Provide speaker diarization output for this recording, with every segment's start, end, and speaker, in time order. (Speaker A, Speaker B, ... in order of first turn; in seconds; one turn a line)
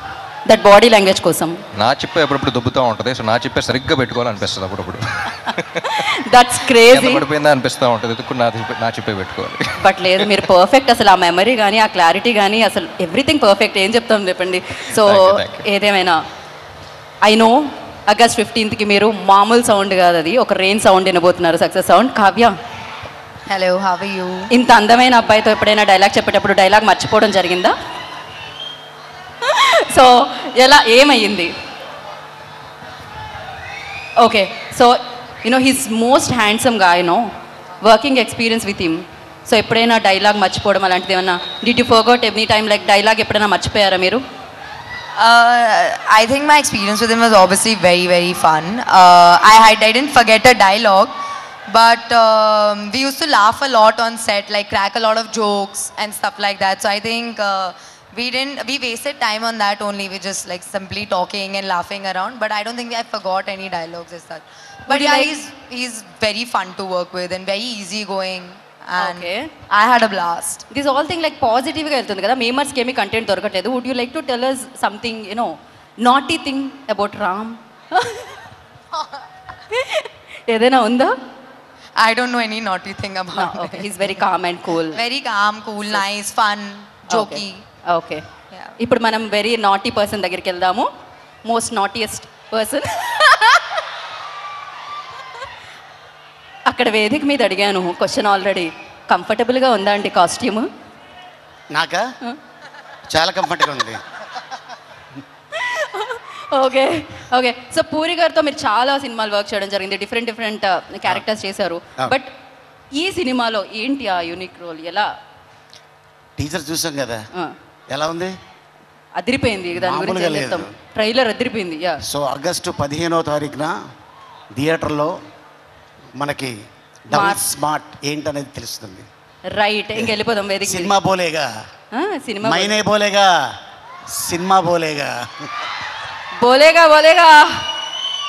Speaker A: 0.5-1.6
Speaker B: 1.7-6.1
Speaker A: 5.8-7.2
Speaker B: 6.9-10.4
Speaker A: 9.8-16.2
Speaker B: 15.0-15.7
Speaker A: 17.2-22.6
Speaker C: 23.5-24.5
Speaker A: 24.5-27.8
Speaker A: 29.4-31.5
Speaker A: 34.2-37.3
Speaker A: 37.8-44.2
Speaker C: 45.2-51.1
Speaker C: 51.7-70.6
Speaker A: 64.9-65.3
Speaker A: 69.0-69.5
Speaker A: 70.7-78.4
Speaker A: 79.7-81.1
Speaker C: 82.0-84.2
Speaker A: 83.3-85.0
Speaker C: 84.9-87.6
Speaker A: 87.1-88.2
Speaker A: 88.8-90.9
Speaker A: 91.5-93.8
Speaker A: 96.7-100.7
Speaker D: 101.7-102.0
Speaker D: 103.1-104.0
Speaker A: 105.5-112.3
Speaker A: 113.0-115.1
Speaker D: 116.4-117.2
Speaker D: 117.9-118.3
Speaker A: 119.2-122.0
Speaker D: 119.7-120.7
Speaker D: 122.1-123.7
Speaker D: 124.5-125.1
Speaker D: 126.2-126.6
Speaker D: 127.1-129.1
Speaker A: 127.1-127.5
Speaker A: 129.5-130.9
Speaker D: 130.6-131.5
Speaker A: 131.9-132.8
Speaker D: 132.4-133.3
Speaker D: 134.1-135.5
Speaker A: 136.4-137.7